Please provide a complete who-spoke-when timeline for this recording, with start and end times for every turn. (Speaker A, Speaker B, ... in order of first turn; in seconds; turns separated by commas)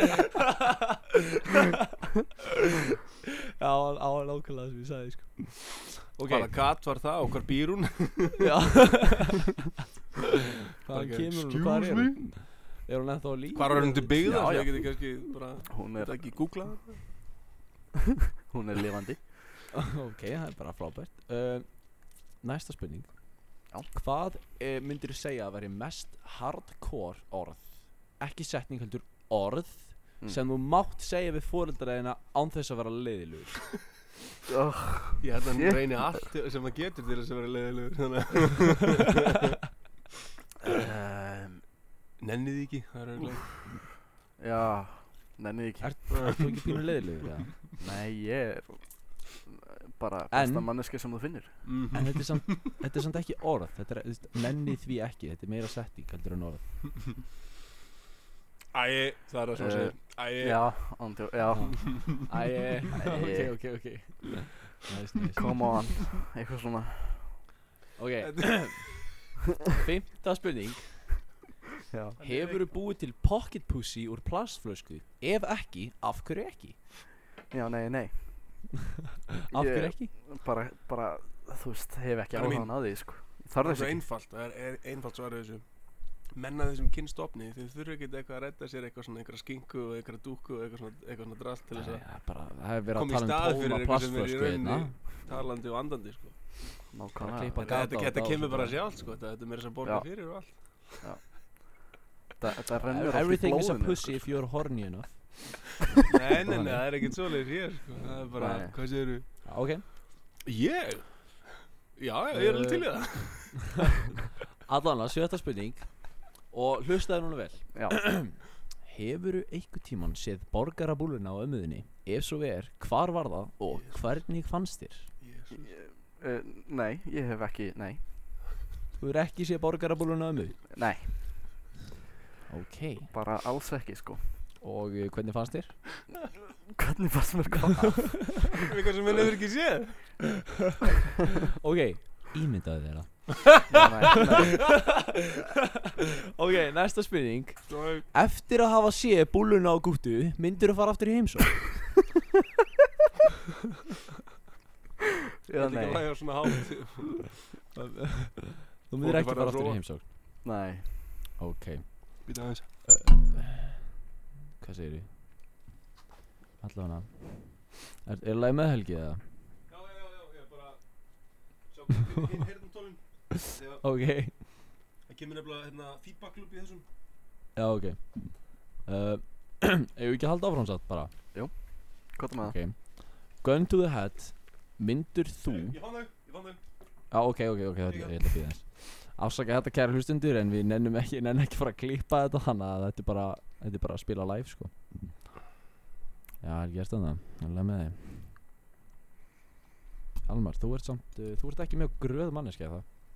Speaker A: 0.3-1.0, Speaker A: 3.6-6.8, Speaker B: 6.2-8.5, Speaker A: 8.4-9.6, Speaker A: 10.8-14.5, Speaker B: 10.9-12.3, Speaker B: 13.5-17.1, Speaker C: 14.2-15.0, Speaker C: 15.7-16.4, Speaker C: 18.5-19.4, Speaker A: 19.7-23.3, Speaker A: 23.9-33.8, Speaker C: 34.5-36.0, Speaker B: 35.2-39.4, Speaker C: 40.6-41.6, Speaker B: 42.2-43.7, Speaker C: 44.4-46.4, Speaker A: 45.8-47.6, Speaker B: 46.1-46.5, Speaker C: 47.8-51.9, Speaker A: 50.3-50.7, Speaker B: 51.6-52.6, Speaker A: 51.9-56.7, Speaker B: 58.7-61.2, Speaker C: 59.5-62.2, Speaker A: 61.5-65.6, Speaker C: 62.9-63.7, Speaker C: 65.4-67.4, Speaker A: 68.0-69.0, Speaker B: 68.2-68.8, Speaker A: 69.8-71.3, Speaker C: 71.9-72.2, Speaker B: 72.2-72.7, Speaker A: 72.2-76.8, Speaker C: 77.5-78.6, Speaker A: 79.5-80.1, Speaker C: 79.5-84.0, Speaker B: 82.3-92.2, Speaker A: 91.7-94.9, Speaker B: 92.9-96.5, Speaker C: 96.9-97.7, Speaker A: 97.2-98.8, Speaker B: 97.6-101.0, Speaker C: 99.8-100.3, Speaker C: 101.0-104.2, Speaker A: 102.9-105.8, Speaker B: 106.1-109.2, Speaker A: 106.4-106.9, Speaker C: 108.3-108.7, Speaker A: 109.4-109.8, Speaker B: 110.4-113.9, Speaker A: 112.3-113.4, Speaker A: 114.6-125.1, Speaker C: 117.7-118.1, Speaker B: 125.2-125.7, Speaker C: 125.5-128.0, Speaker A: 129.0-130.7, Speaker C: 130.7-131.3, Speaker A: 132.5-133.1, Speaker C: 133.1-134.3, Speaker A: 134.6-135.8, Speaker C: 136.7-138.5, Speaker B: 138.7-140.3, Speaker A: 141.6-143.6, Speaker C: 143.7-144.8, Speaker A: 146.3-151.9, Speaker B: 147.7-148.1, Speaker C: 155.4-156.3, Speaker B: 155.6-157.3, Speaker A: 157.8-160.0, Speaker B: 159.0-159.8, Speaker C: 160.4-160.9, Speaker A: 161.4-163.8, Speaker B: 162.2-162.7, Speaker A: 164.6-165.1, Speaker A: 166.6-169.2, Speaker B: 169.7-170.8, Speaker B: 171.7-173.9, Speaker A: 173.8-174.4, Speaker B: 175.1-176.8, Speaker A: 177.6-181.1, Speaker C: 181.3-182.6, Speaker A: 182.4-185.8, Speaker B: 185.5-186.6, Speaker A: 187.1-195.2, Speaker B: 187.9-188.2, Speaker A: 196.4-198.3, Speaker A: 200.2-202.8